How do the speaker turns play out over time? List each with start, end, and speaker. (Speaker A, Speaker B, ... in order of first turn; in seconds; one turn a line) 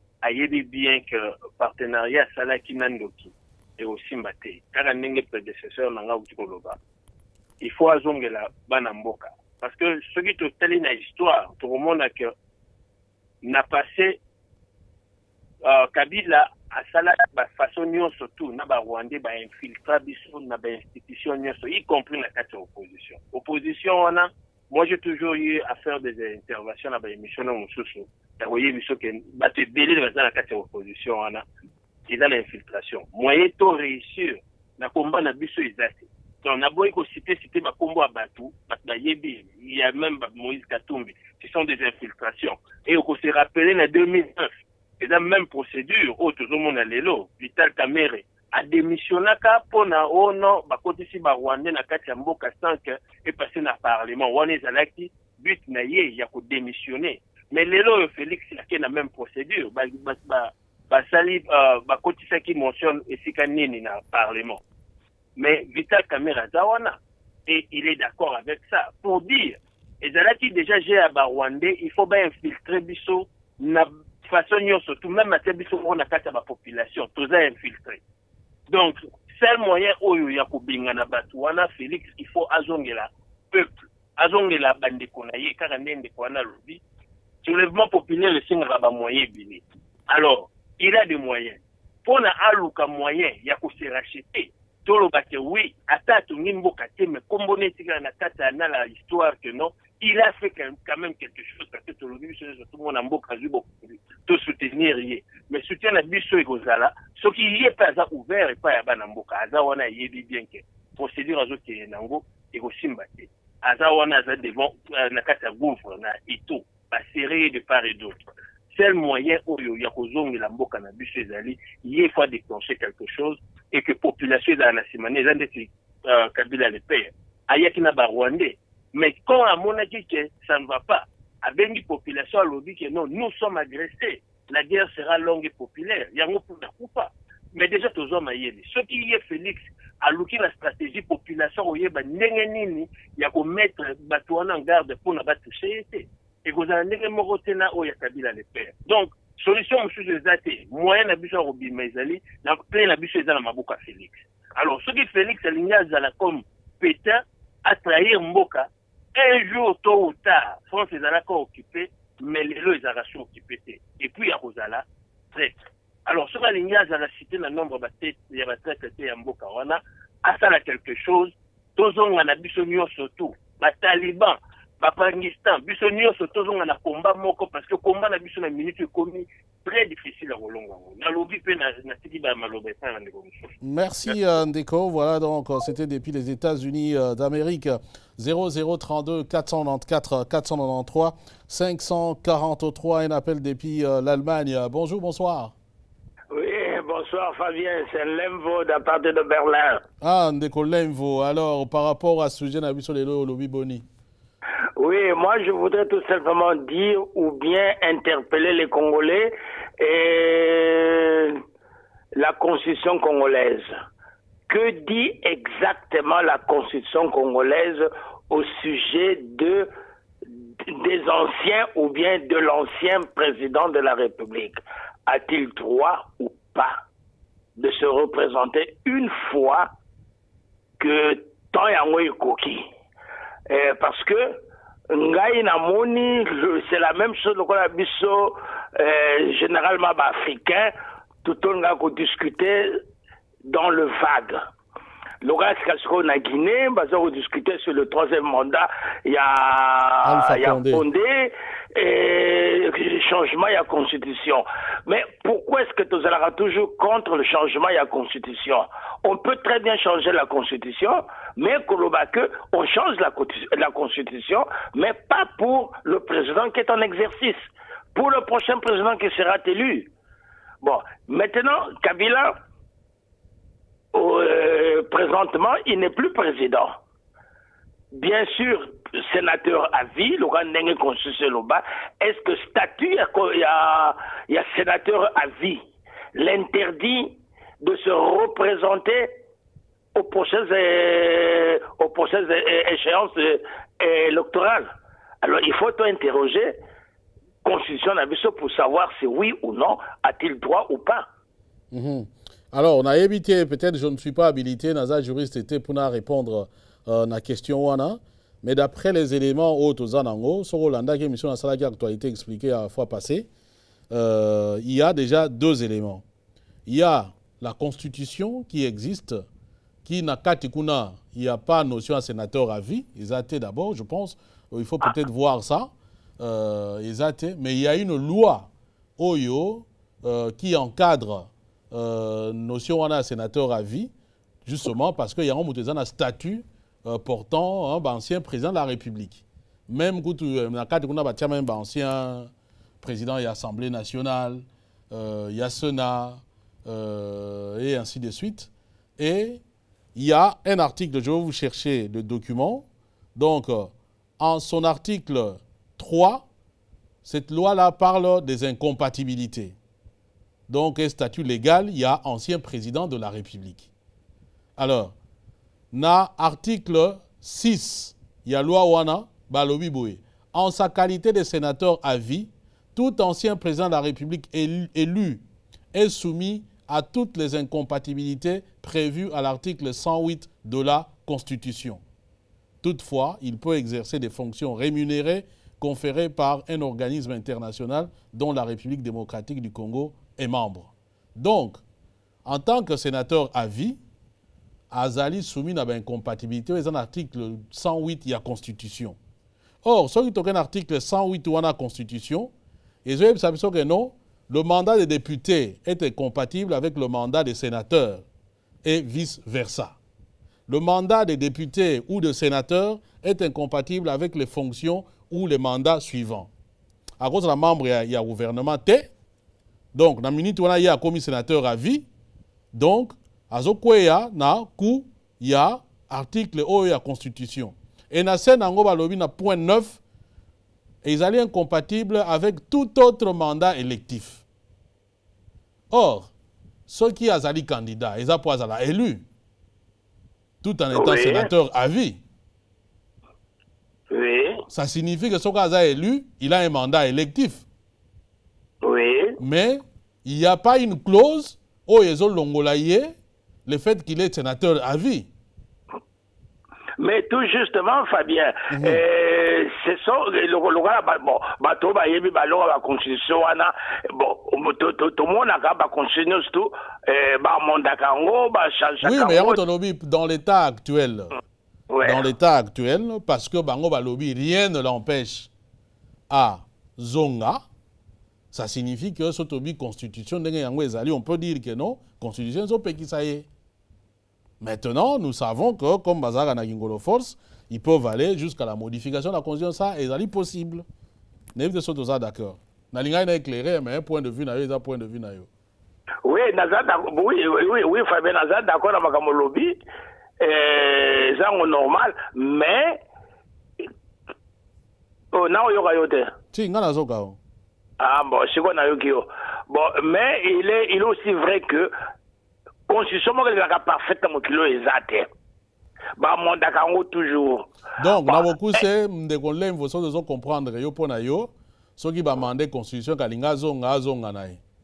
Speaker A: 0.2-6.8
Speaker A: 7.6-12.3
Speaker A: 13.4-14.2
Speaker A: 15.6-31.4
Speaker A: 32.1-64.6
Speaker A: 65.4-78.0
Speaker A: 78.7-86.8
Speaker A: 87.4-118.2
Speaker A: 118.7-183.6
Speaker B: 183.6-195.5
Speaker C: 196.3-199.8
Speaker B: 200.0-203.9
Speaker C: 204.8-211.4
Speaker C: 212.2-213.7
Speaker C: 214.5-219.7
Speaker C: 220.7-226.8
Speaker C: 227.6-229.7
Speaker C: 230.8-232.7
Speaker C: 233.5-234.4
Speaker C: 234.9-240.7
Speaker C: 241.2-242.8
Speaker C: 243.5-244.4
Speaker C: 245.2-269.9
Speaker B: 250.0-250.8
Speaker C: 270.6-272.4
Speaker C: 273.9-276.8
Speaker C: 277.9-285.6
Speaker C: 286.1-289.1
Speaker C: 289.9-294.7
Speaker C: 295.2-296.6
Speaker C: 297.4-301.1
Speaker B: 301.7-313.3
Speaker B: 313.9-316.0
Speaker B: 316.7-319.2
Speaker B: 319.9-333.9
Speaker B: 334.4-349.4
Speaker B: 349.9-356.2
Speaker B: 357.0-359.6
Speaker B: 360.5-363.7
Speaker B: 364.6-364.9
Speaker B: 365.7-381.8
Speaker B: 382.6-391.6
Speaker B: 392.2-393.8
Speaker B: 394.7-399.0
Speaker B: 399.6-402.3
Speaker B: 402.9-408.1
Speaker B: 408.6-409.8
Speaker B: 410.5-416.3
Speaker B: 417.0-418.9
Speaker B: 419.7-421.9
Speaker B: 422.5-429.8
Speaker B: 430.8-434.2
Speaker B: 435.7-436.1
Speaker B: 436.7-439.0
Speaker B: 440.4-442.0
Speaker C: 440.7-441.3
Speaker C: 443.9-444.4
Speaker B: 444.5-447.4
Speaker C: 448.6-449.2
Speaker B: 449.2-452.9
Speaker B: 453.5-455.1
Speaker C: 456.8-469.4
Speaker B: 458.5-458.8
Speaker B: 468.8-471.1
Speaker C: 471.7-472.1
Speaker B: 471.8-475.3
Speaker B: 476.1-477.4
Speaker B: 478.3-483.3
Speaker B: 484.4-490.6
Speaker B: 491.4-495.3
Speaker C: 496.1-499.6
Speaker C: 500.2-502.8
Speaker C: 505.1-506.1
Speaker B: 506.3-507.2
Speaker C: 507.8-511.7
Speaker C: 512.7-515.1
Speaker C: 516.0-517.5
Speaker B: 517.8-524.4